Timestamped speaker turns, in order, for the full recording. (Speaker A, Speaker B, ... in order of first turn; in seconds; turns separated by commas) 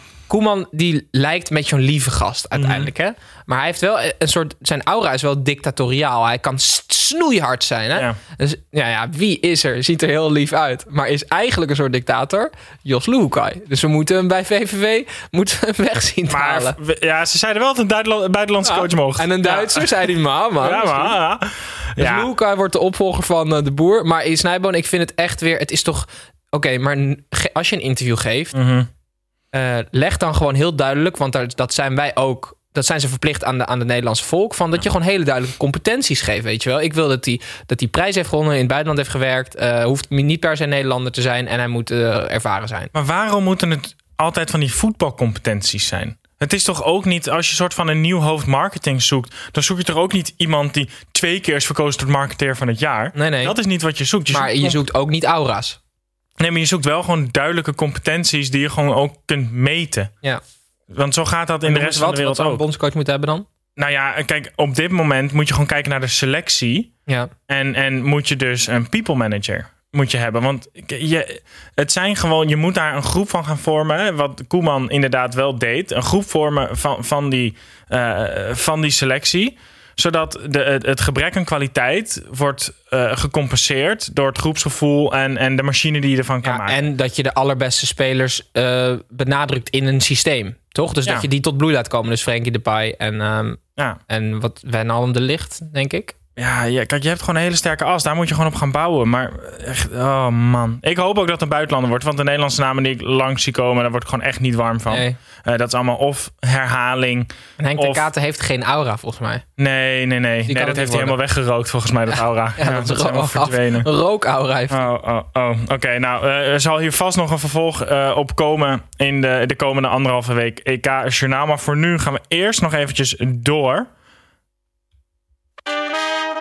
Speaker A: 0.3-16.8, Speaker B: 2.5-2.9, Speaker B: 16.3-22.3, Speaker A: 18.6-21.2, Speaker A: 22.0-28.5, Speaker B: 28.5-28.9, Speaker A: 29.5-42.9, Speaker B: 42.9-54.8, Speaker A: 53.1-53.6, Speaker A: 54.3-55.8, Speaker B: 56.4-60.1, Speaker B: 60.9-62.6, Speaker A: 61.6-63.5, Speaker B: 63.8-66.9, Speaker B: 67.5-86.8, Speaker A: 86.4-96.1, Speaker B: 96.4-108.1, Speaker A: 104.9-105.2, Speaker A: 107.6-109.4, Speaker B: 109.6-113.9, Speaker A: 110.5-111.2, Speaker A: 112.1-114.9, Speaker B: 114.7-123.9